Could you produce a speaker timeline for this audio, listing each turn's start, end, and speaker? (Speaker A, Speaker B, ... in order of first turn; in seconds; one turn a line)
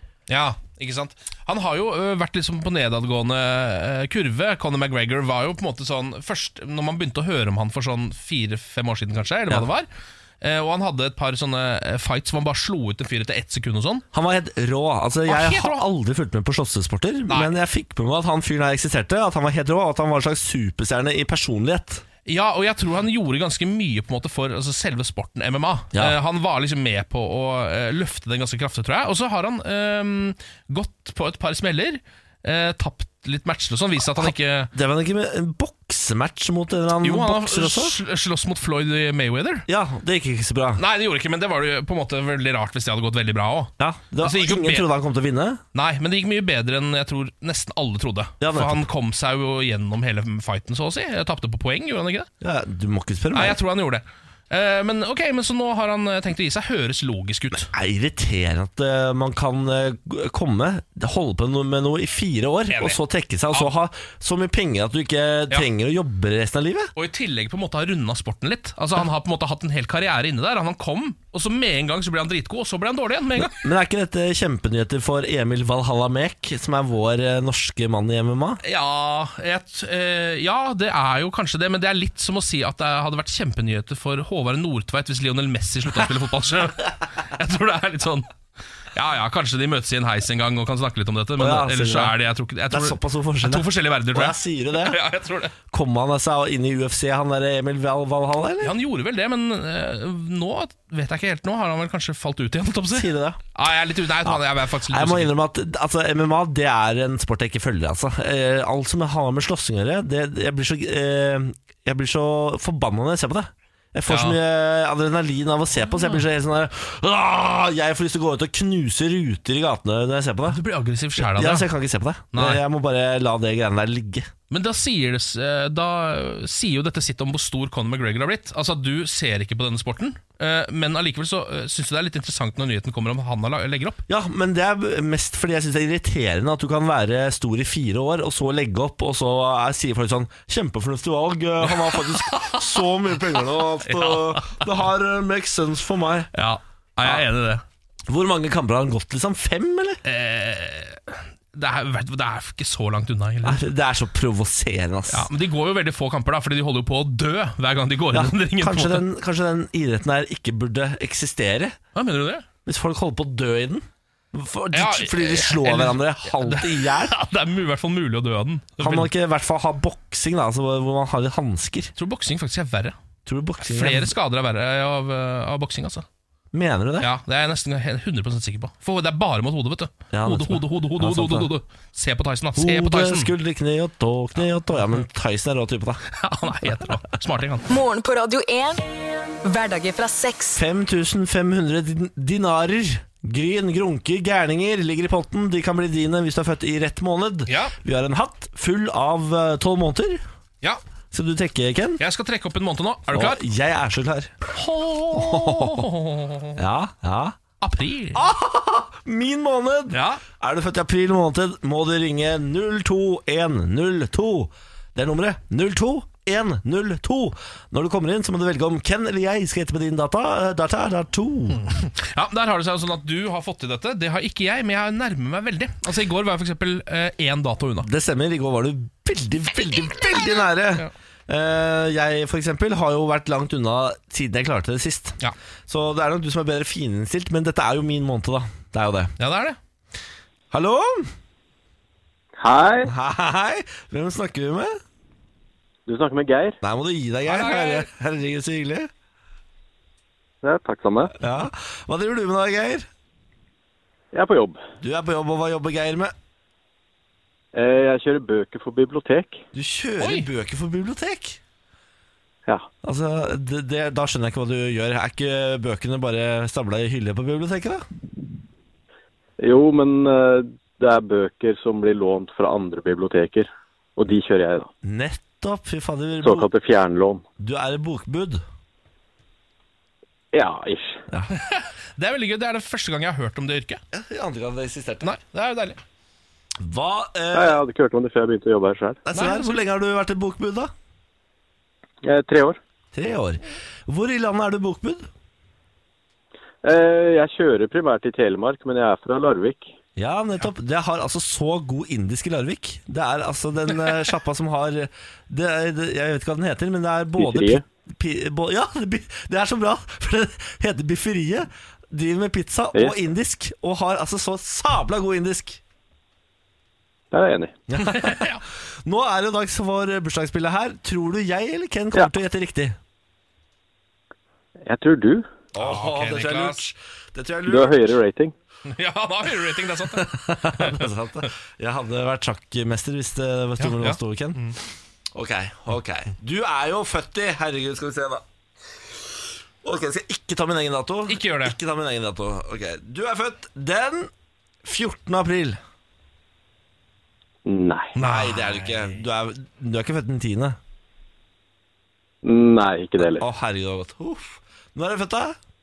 Speaker A: 0.3-9.9
Speaker A: 10.4-14.0
Speaker B: 14.1-22.0
Speaker A: 15.3-15.8
Speaker A: 22.3-34.7
Speaker B: 34.0-38.0
Speaker A: 37.0-39.6
Speaker B: 39.7-40.8
Speaker A: 40.8-44.9
Speaker B: 43.8-45.6
Speaker A: 45.7-52.3
Speaker B: 48.4-48.8
Speaker B: 52.4-53.6
Speaker A: 53.3-57.7
Speaker B: 57.5-66.9
Speaker A: 62.7-63.0
Speaker A: 67.0-73.6
Speaker B: 73.4-78.6
Speaker A: 78.6-88.3
Speaker A: 88.9-95.5
Speaker B: 91.4-92.2
Speaker B: 92.7-95.0
Speaker B: 95.7-98.8
Speaker A: 98.6-105.3
Speaker B: 102.9-103.4
Speaker B: 104.2-120.6
Speaker A: 114.1-114.4
Speaker A: 115.9-116.2
Speaker A: 120.5-121.7
Speaker B: 121.2-124.3
Speaker A: 122.3-122.6
Speaker A: 124.5-134.0
Speaker B: 134.1-146.3
Speaker A: 141.7-142.8
Speaker A: 143.8-144.7
Speaker A: 146.3-147.6
Speaker B: 148.1-150.0
Speaker A: 150.1-153.6
Speaker B: 153.4-155.3
Speaker A: 155.1-159.0
Speaker B: 158.1-161.8
Speaker A: 161.9-162.4
Speaker B: 162.7-167.2
Speaker A: 164.7-169.1
Speaker B: 168.8-171.9
Speaker A: 172.0-173.0
Speaker B: 173.3-174.1
Speaker A: 173.6-176.1
Speaker B: 176.5-177.1
Speaker A: 177.0-183.3
Speaker B: 180.1-181.5
Speaker B: 182.6-186.0
Speaker A: 186.2-187.7
Speaker C: 187.7-188.8
Speaker C: 189.4-190.6
Speaker B: 190.6-200.2
Speaker A: 197.5-197.8
Speaker B: 201.1-202.0
Speaker A: 202.0-203.4
Speaker B: 203.1-204.4
Speaker A: 204.5-206.6
Speaker B: 205.1-205.9
Speaker B: 206.6-207.4
Speaker A: 207.6-208.2
Speaker B: 208.1-221.6
Speaker A: 209.9-210.2
Speaker A: 221.5-227.9
Speaker B: 227.8-235.2
Speaker B: 235.7-239.1
Speaker A: 239.2-239.6
Speaker B: 240.5-241.1
Speaker D: 242.4-242.9
Speaker B: 242.8-244.8
Speaker D: 245.9-246.6
Speaker B: 246.6-248.9
Speaker A: 247.3-247.9
Speaker D: 250.4-251.1
Speaker B: 251.2-252.9
Speaker D: 254.1-254.6
Speaker B: 254.8-256.1
Speaker D: 257.5-259.4
Speaker B: 259.5-261.4
Speaker A: 260.0-260.3
Speaker B: 262.8-267.9
Speaker D: 269.4-274.7
Speaker B: 274.8-276.5
Speaker D: 276.2-277.2
Speaker B: 277.4-278.4
Speaker D: 280.3-281.0
Speaker A: 281.3-283.8
Speaker B: 283.9-285.1
Speaker A: 285.0-285.8
Speaker B: 286.6-287.6
Speaker D: 287.3-289.0
Speaker B: 289.1-290.7
Speaker A: 289.1-289.6
Speaker D: 292.0-292.6
Speaker B: 292.9-295.1
Speaker D: 296.6-299.7
Speaker B: 300.0-315.6
Speaker D: 307.2-307.6
Speaker D: 317.1-317.6
Speaker B: 317.7-322.8
Speaker A: 317.9-318.4
Speaker D: 324.6-325.3
Speaker B: 325.5-327.8
Speaker A: 325.6-326.6
Speaker D: 327.5-328.3
Speaker A: 328.7-331.3
Speaker B: 330.0-334.4
Speaker A: 333.6-334.6
Speaker B: 335.1-338.2
Speaker B: 339.6-344.1
Speaker A: 341.1-341.6
Speaker B: 344.6-345.6
Speaker D: 347.4-348.0
Speaker A: 348.0-348.8
Speaker B: 348.0-350.6
Speaker D: 352.2-353.2
Speaker B: 353.1-355.4